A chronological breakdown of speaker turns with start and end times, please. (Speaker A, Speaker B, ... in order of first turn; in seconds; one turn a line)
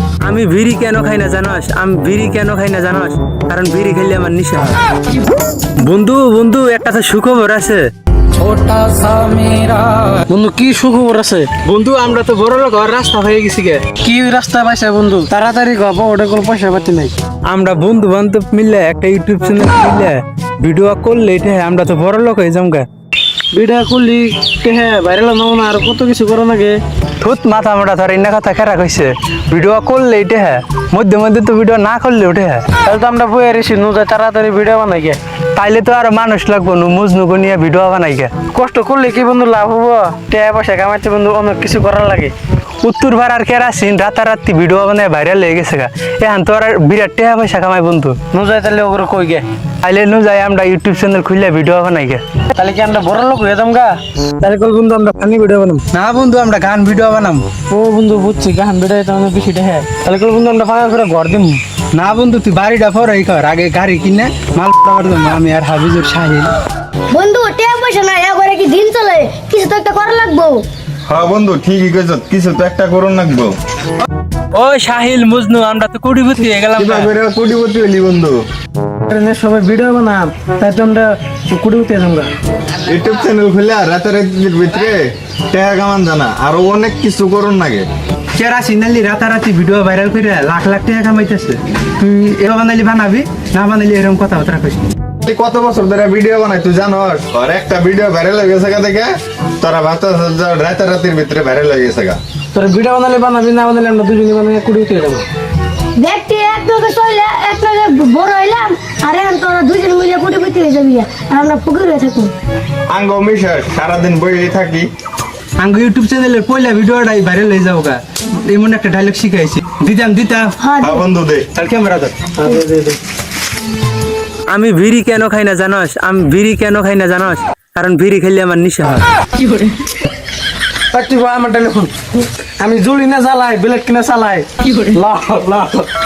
Speaker A: 0.2-4.8
Speaker A: 5.6-10.0
Speaker B: 10.2-11.6
Speaker A: 11.6-13.8
Speaker B: 14.0-17.1
Speaker A: 17.4-22.9
Speaker B: 23.5-26.8
Speaker A: 27.2-32.7
Speaker B: 32.8-35.2
Speaker A: 35.5-38.3
Speaker B: 38.5-42.3
Speaker A: 42.8-48.2
Speaker B: 48.3-49.4
Speaker A: 49.8-52.2
Speaker B: 52.5-55.8
Speaker A: 55.9-57.4
Speaker B: 57.7-61.6
Speaker A: 61.9-66.5
Speaker C: 67.1-70.6
Speaker D: 71.1-73.5
Speaker A: 74.5-77.1
Speaker D: 76.8-78.4
Speaker B: 79.1-82.3
Speaker D: 82.8-87.9
Speaker A: 88.3-94.9
Speaker D: 95.2-102.2
Speaker B: 102.5-105.2
Speaker C: 106.0-112.3
Speaker D: 112.9-114.9
Speaker A: 115.6-120.5
Speaker C: 120.6-121.0
Speaker D: 120.8-121.5
Speaker A: 121.5-122.2
Speaker B: 122.3-123.0
Speaker A: 124.5-129.1
Speaker B: 129.4-129.7
Speaker B: 130.9-132.0
Speaker B: 132.6-135.9